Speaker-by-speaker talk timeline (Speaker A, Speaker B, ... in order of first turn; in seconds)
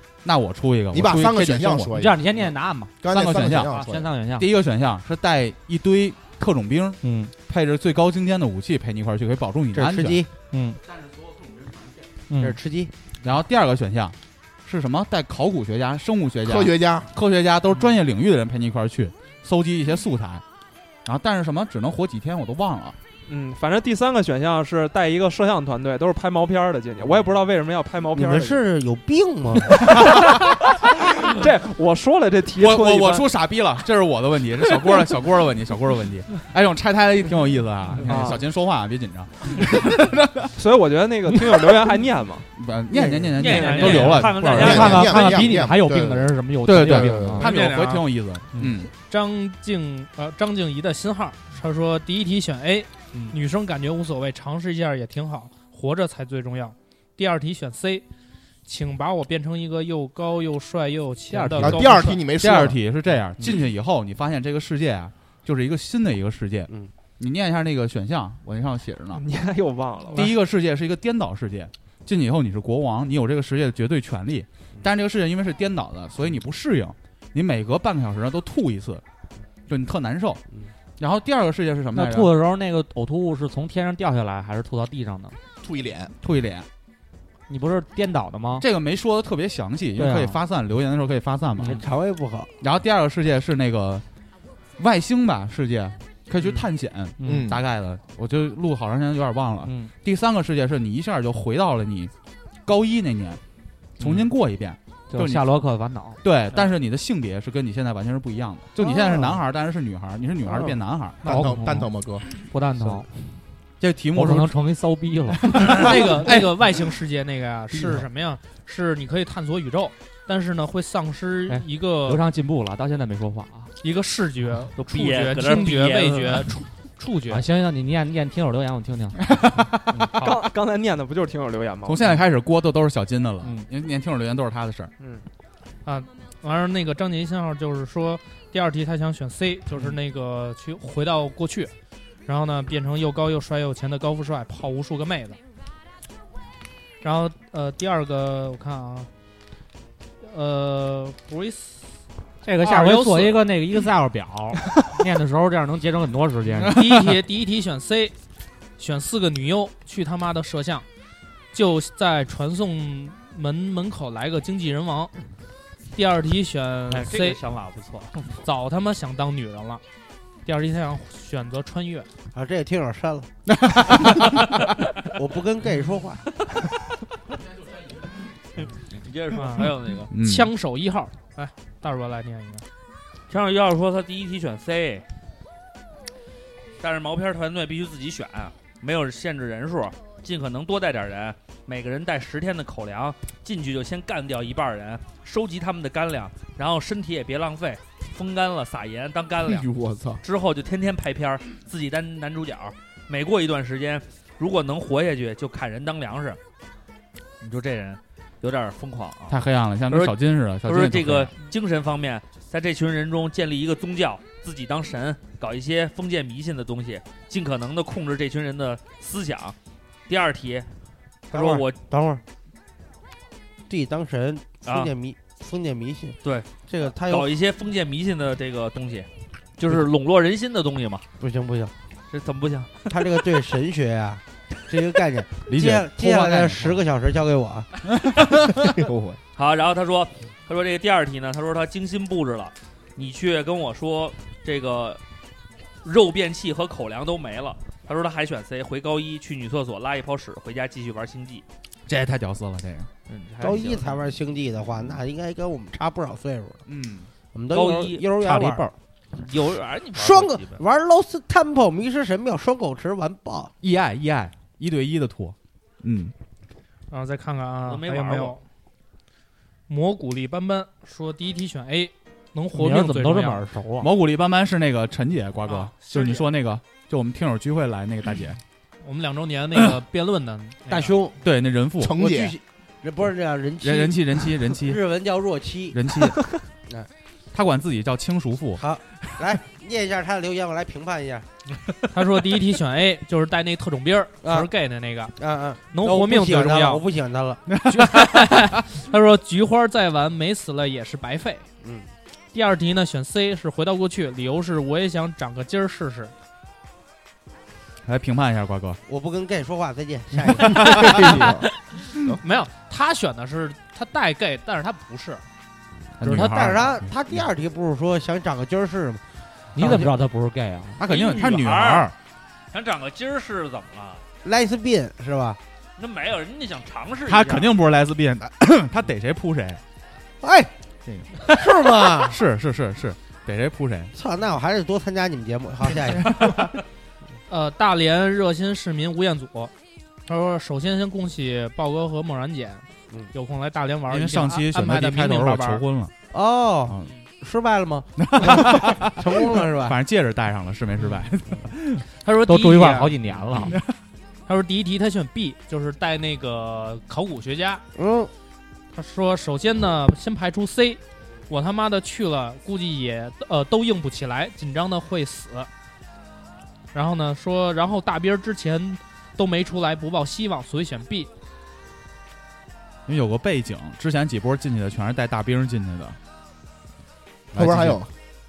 Speaker A: 0.2-1.9, 3.0-10.2, 13.2-20.4, 21.0-23.0, 30.0-30.3, 32.5-40.5, 42.5-45.0, 46.6-48.9, 62.4-69.2, 70.1-79.0, 79.7-80.4, 81.0-82.4, 86.2-86.7, 88.6-91.8, 92.6-94.0, 94.8-102.1, 102.7-103.4, 104.0-105.5, 106.2-111.3, 113.8-114.5, 115.3-116.5, 129.4-129.7, 131.8-134.9, 156.6-157.1, 173.5-174.5, 180.1-180.5, 209.3-211.3, 235.5-236.8, 237.9-238.9, 251.9-252.9, 256.7-257.1, 263.6-266.1, 273.8-278.4, 281.2-281.9, 283.6-284.8, 285.7-286.2, 287.3-288.6, 297.5-298.3, 307.8-308.8, 316.0-317.2, 320.8-321.9, 327.1-329.6, 330.9-331.3, 331.9-333.9, 336.0-336.4, 343.9-345.9, 348.0-351.8, 353.3-353.7, 372.9-376.0, 377.3-377.8
Speaker B: 0.9-2.5, 3.0-4.0, 16.4-17.1, 44.5-46.3, 46.9-47.5, 61.6-62.8, 85.6-86.1, 97.2-97.6, 111.2-112.2, 199.4-200.2, 281.8-282.3, 310.6-311.4, 377.3-377.9
Speaker C: 1.9-2.9, 3.6-4.5, 7.0-7.3, 10.5-10.8, 12.3-12.6, 43.6-47.8, 61.3-62.1, 81.9-85.4, 87.5-88.7, 90.0-90.4, 97.2-97.5, 99.6-99.9, 104.0-104.3, 105.1-106.2, 109.0-109.3, 111.2-113.1, 114.1-115.9, 121.5-123.7, 127.3-129.2, 129.9-130.3, 152.4-156.8, 258.3-258.5, 272.5-273.9, 319.5-320.8, 352.2-353.6
Speaker D: 9.7-10.3, 12.4-12.9, 28.1-29.9, 91.6-92.5, 172.3-173.3, 175.1-176.2, 221.3-222.2, 223.7-226.2, 226.7-227.3, 231.2-231.7, 232.9-237.7, 253.4-256.6, 257.3-258.7, 259.9-263.5, 280.7-281.1, 281.9-285.8, 288.6-291.2, 294.2-294.5, 295.2-297.4, 301.6-301.9, 308.9-311.0, 316.0-319.0, 319.6-319.9, 324.2-325.4, 330.2-330.5, 331.3-332.2, 333.9-336.2, 346.1-349.8, 357.7-358.1
Speaker E: 23.2-28.6, 30.0-30.3, 31.2-33.3, 38.0-38.4, 40.5-42.5, 69.1-70.2, 130.2-132.1
Speaker F: 43.3-45.1, 124.8-126.5, 166.9-168.2, 178.8-180.1, 183.3-185.0, 186.8-199.7, 200.2-206.4, 207.4-219.6, 220.1-220.7, 221.3-221.8, 224.7-224.9, 226.2-231.0, 232.1-232.9, 239.3-245.0, 245.8-251.4, 253.1-254.0, 257.5-258.1, 259.1-260.6, 267.6-268.4, 320.8-321.9, 322.5-324.0, 325.8-327.5
Speaker G: 47.5-48.0, 49.0-58.0, 58.6-62.2, 115.7-122.2, 123.8-127.5, 135.8-141.7, 142.2-145.4, 147.0-149.1, 150.2-151.9, 152.6-153.4, 156.6-158.1, 158.8-160.8, 161.5-165.1, 165.9-167.4, 168.3-169.8, 170.4-172.1, 179.4-182.6, 266.9-268.4, 269.7-273.5, 275.4-276.3, 278.8-280.9, 291.9-295.1, 295.7-296.8, 297.7-301.4, 302.3-306.1, 312.2-315.2, 316.0-316.6, 337.3-339.5, 340.1-345.6, 352.0-353.5, 354.2-357.6, 358.7-365.5, 366.7-371.1